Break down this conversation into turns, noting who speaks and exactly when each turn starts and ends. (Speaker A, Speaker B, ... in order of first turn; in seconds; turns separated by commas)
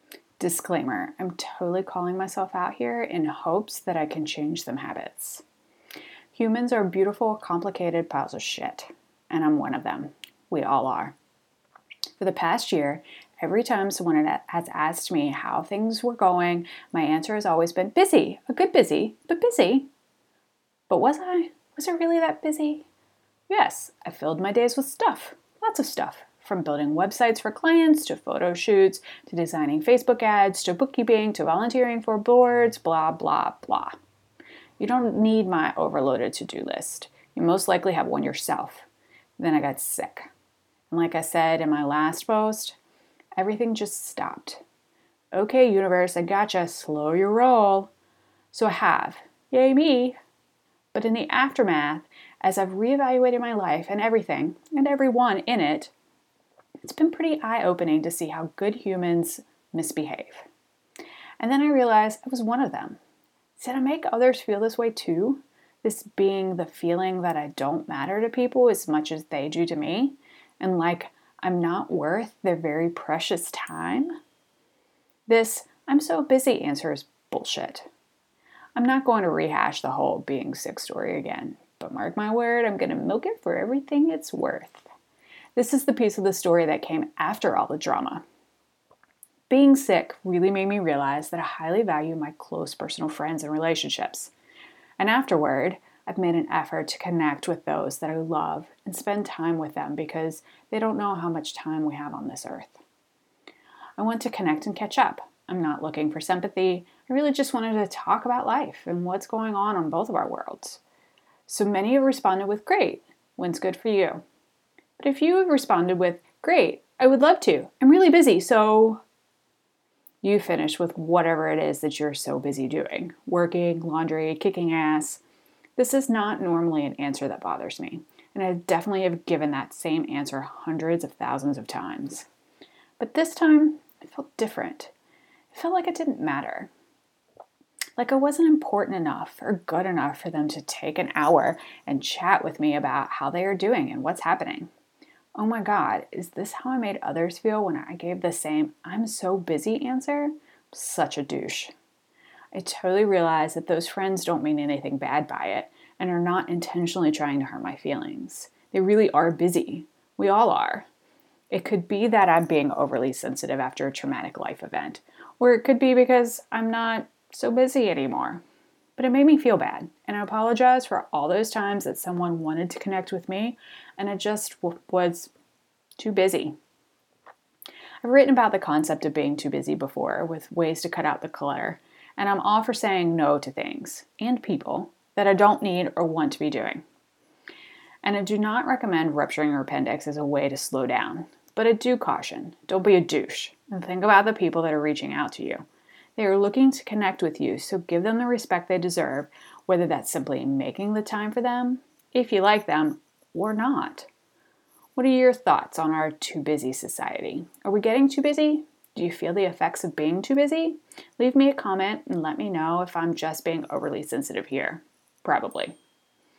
Speaker A: 0.4-5.4, Speaker A: 6.3-11.1, Speaker A: 12.2-19.9, Speaker A: 20.9-22.9, Speaker A: 23.5-34.0, Speaker A: 34.8-40.3, Speaker A: 40.9-42.8, Speaker A: 43.4-44.6, Speaker A: 45.3-47.9, Speaker A: 48.5-50.2, Speaker A: 50.9-55.9, Speaker A: 56.8-60.5, Speaker A: 61.4-63.0, Speaker A: 63.5-74.1, Speaker A: 75.3-77.9, Speaker A: 78.8-84.9, Speaker A: 85.5-88.2, Speaker A: 89.5-94.3, Speaker A: 95.0-102.8, Speaker A: 104.0-110.8, Speaker A: 111.5-114.2, Speaker A: 115.0-119.0, Speaker A: 120.2-125.2, Speaker A: 125.8-132.3, Speaker A: 133.0-134.9, Speaker A: 135.5-136.7, Speaker A: 138.0-144.7, Speaker A: 145.3-151.7, Speaker A: 152.5-160.9, Speaker A: 161.5-168.4, Speaker A: 169.0-175.3, Speaker A: 176.0-176.6, Speaker A: 178.0-186.8, Speaker A: 188.0-195.7, Speaker A: 196.2-204.1, Speaker A: 204.9-215.8